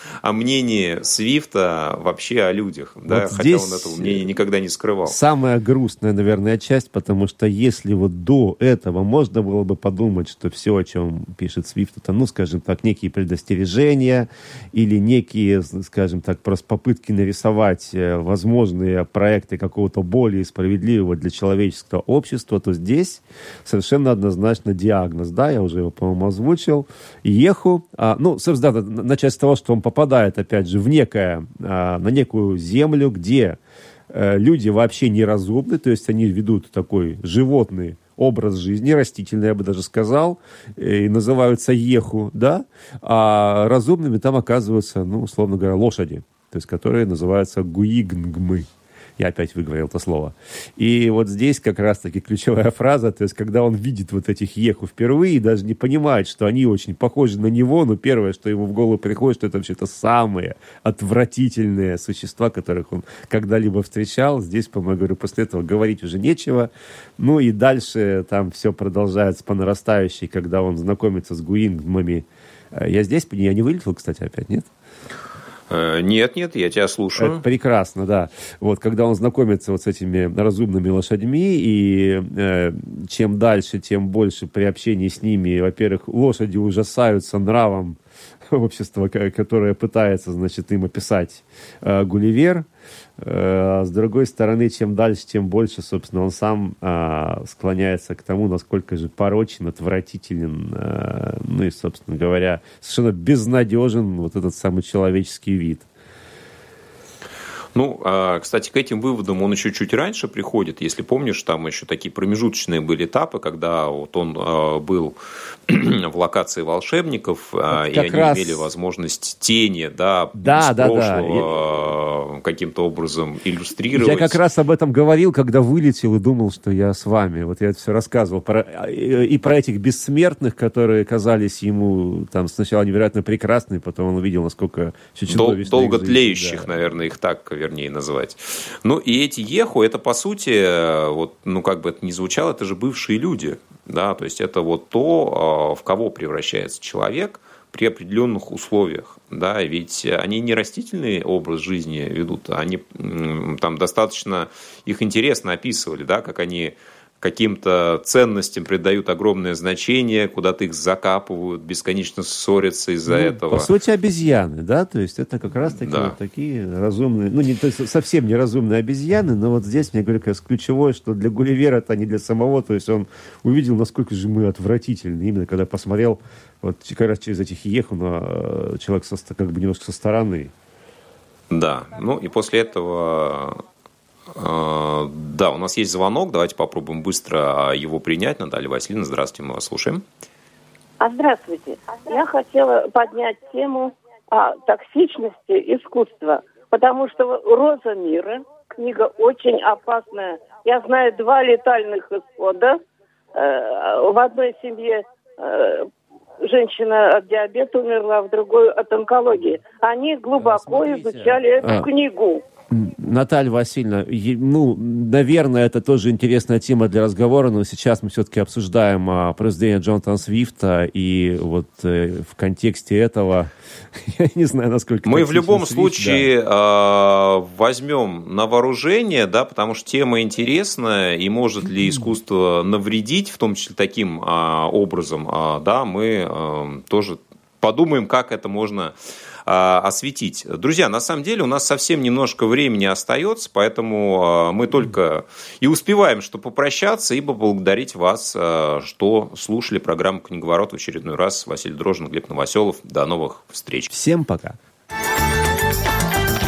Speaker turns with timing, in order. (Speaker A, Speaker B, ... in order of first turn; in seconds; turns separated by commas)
Speaker A: 0.2-5.2, Speaker B: 3.1-4.2, Speaker B: 5.0-33.6, Speaker B: 34.1-74.7, Speaker A: 75.7-77.4, Speaker B: 77.2-88.0, Speaker B: 88.5-92.7, Speaker B: 93.2-105.9, Speaker A: 107.7-115.2, Speaker A: 115.7-124.4, Speaker B: 117.7-118.7, Speaker B: 120.4-121.5, Speaker B: 123.9-136.7, Speaker A: 135.3-163.7, Speaker B: 163.1-180.5, Speaker A: 165.8-166.2, Speaker A: 181.5-183.6, Speaker A: 184.3-190.0, Speaker C: 191.0-202.8, Speaker C: 203.3-205.9, Speaker C: 206.4-212.4, Speaker B: 210.3-211.9, Speaker B: 212.7-226.3, Speaker A: 225.0-238.9, Speaker A: 239.4-253.9, Speaker B: 253.9-254.6